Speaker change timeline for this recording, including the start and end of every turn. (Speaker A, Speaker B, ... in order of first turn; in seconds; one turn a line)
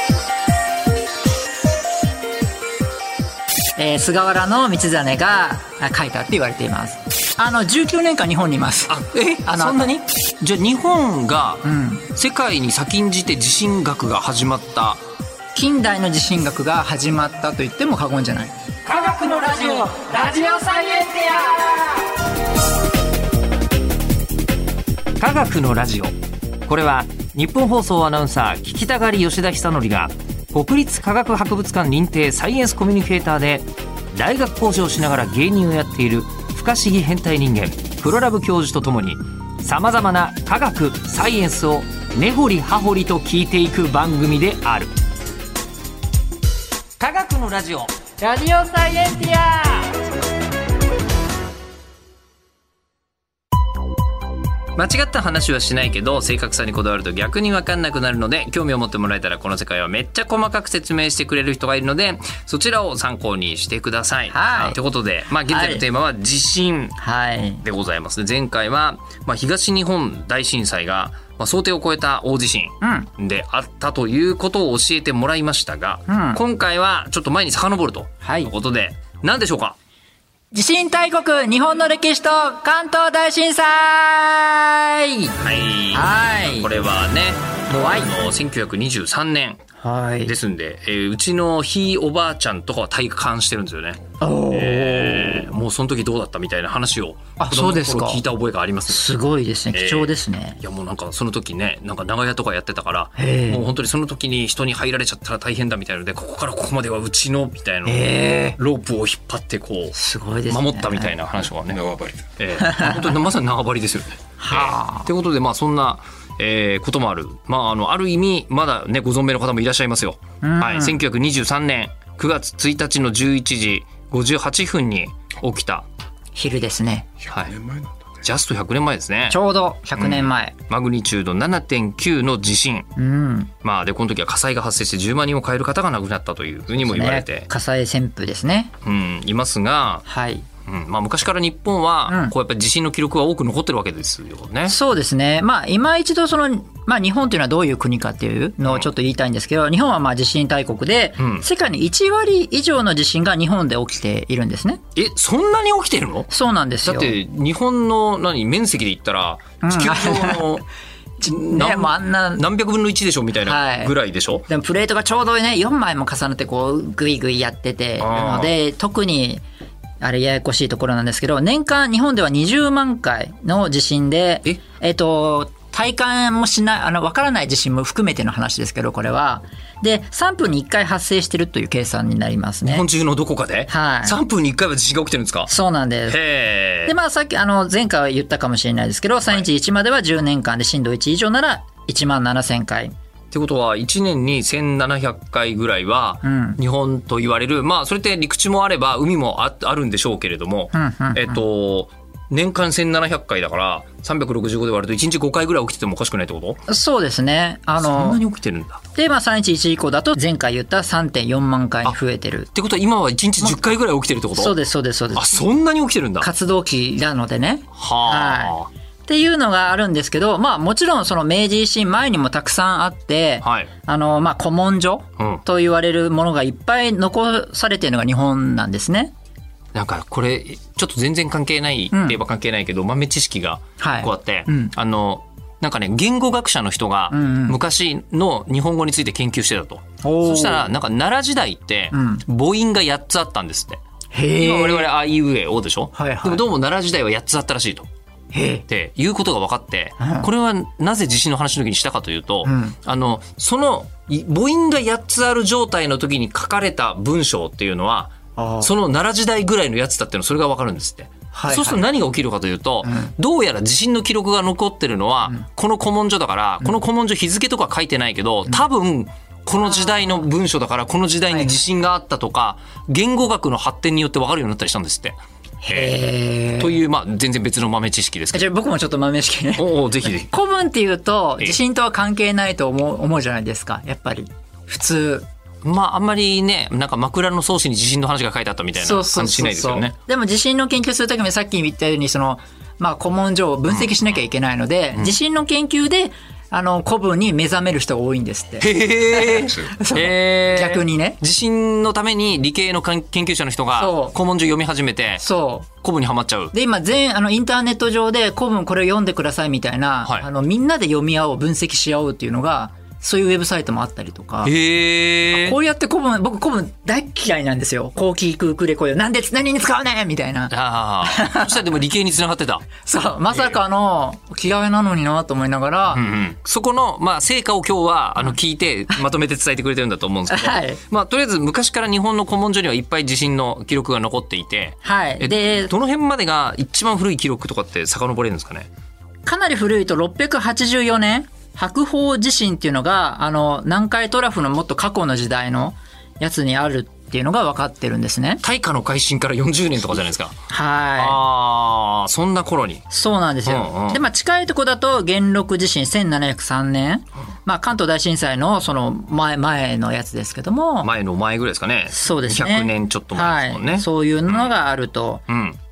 Speaker A: 3.8-10.0
Speaker B: 8.9-15.0
Speaker A: 11.6-12.1
Speaker A: 15.5-18.5
Speaker B: 18.9-20.1
Speaker A: 19.1-21.8
Speaker B: 25.2-26.1
Speaker B: 26.6-45.0
Speaker B: 47.0-47.9
Speaker A: 48.2-50.0
Speaker B: 54.8-67.0
Speaker A: 64.3-64.8
Speaker A: 65.5-65.8
Speaker A: 67.0-67.6
Speaker B: 67.6-79.8
Speaker A: 72.8-73.1
Speaker A: 76.1-76.4
Speaker A: 78.2-78.5
Speaker A: 80.5-85.3
Speaker B: 85.4-89.6
Speaker A: 85.9-86.7
Speaker A: 87.7-88.1
Speaker A: 89.8-90.3
Speaker B: 90.2-99.0
Speaker A: 94.2-95.5
Speaker A: 97.4-98.2
Speaker A: 98.9-100.6
Speaker B: 99.7-110.0
Speaker A: 103.2-103.6
Speaker A: 107.9-108.6
Speaker A: 109.9-111.1
Speaker B: 110.5-125.8
Speaker A: 112.6-113.1
Speaker A: 114.4-115.1
Speaker A: 120.4-121.0
Speaker A: 126.3-127.1
Speaker B: 127.2-127.6
Speaker B: 128.2-129.4
Speaker A: 129.3-130.6
Speaker B: 130.0-132.9
Speaker A: 133.0-133.5
Speaker B: 133.6-137.5
Speaker A: 136.8-138.7
Speaker B: 138.8-140.0
Speaker A: 140.1-140.5
Speaker B: 140.7-144.8
Speaker A: 142.1-142.3
Speaker A: 144.7-154.8
Speaker B: 151.2-151.4
Speaker B: 154.9-156.3
Speaker A: 156.3-157.2
Speaker B: 156.8-160.7
Speaker A: 159.6-160.6
Speaker B: 161.2-164.5
Speaker A: 161.2-162.4
Speaker A: 163.4-163.9
Speaker A: 164.5-169.4
Speaker B: 168.0-168.5
Speaker A: 170.0-182.8
Speaker B: 182.6-185.5
Speaker A: 183.7-184.2
Speaker A: 185.5-186.2
Speaker B: 186.1-186.9
Speaker A: 186.8-192.9
Speaker B: 193.3-206.6
Speaker A: 196.2-196.6
Speaker A: 200.7-201.4
Speaker A: 206.7-208.2
Speaker B: 207.8-208.8
Speaker A: 208.9-212.5
Speaker B: 212.5-214.5
Speaker A: 214.3-215.4
Speaker B: 215.1-216.3
Speaker A: 216.2-218.6
Speaker B: 217.8-218.7
Speaker A: 219.1-229.1
Speaker B: 223.4-223.7
Speaker B: 229.8-243.8
Speaker A: 231.9-232.2
Speaker A: 233.8-234.7
Speaker A: 237.1-237.6
Speaker A: 240.0-240.7
Speaker A: 241.9-242.2
Speaker A: 244.1-244.9
Speaker B: 244.3-247.9
Speaker A: 245.9-246.4
Speaker A: 248.3-248.7
Speaker B: 248.7-275.2
Speaker A: 250.0-250.3
Speaker A: 252.4-252.8
Speaker A: 258.4-258.7
Speaker A: 261.3-261.8
Speaker A: 262.8-263.1
Speaker A: 275.6-276.8
Speaker B: 275.7-275.9
Speaker B: 276.6-278.4
Speaker A: 278.3-285.2
Speaker B: 279.6-280.3
Speaker B: 285.6-289.9
Speaker A: 288.8-301.2
Speaker B: 298.6-305.2
Speaker A: 303.8-304.1
Speaker A: 305.2-305.7
Speaker B: 305.8-306.5
Speaker A: 306.5-314.5
Speaker B: 314.4-315.6
Speaker A: 315.3-321.6
Speaker B: 320.5-322.7
Speaker A: 322.8-326.0
Speaker B: 325.9-338.7
Speaker A: 330.3-330.8
Speaker A: 334.8-335.7
Speaker A: 339.2-348.4
Speaker B: 348.4-350.4
Speaker A: 350.5-351.2
Speaker B: 351.0-352.8
Speaker A: 352.9-360.9
Speaker B: 353.4-354.0
Speaker B: 360.8-364.5
Speaker A: 361.9-365.2
Speaker B: 365.3-365.6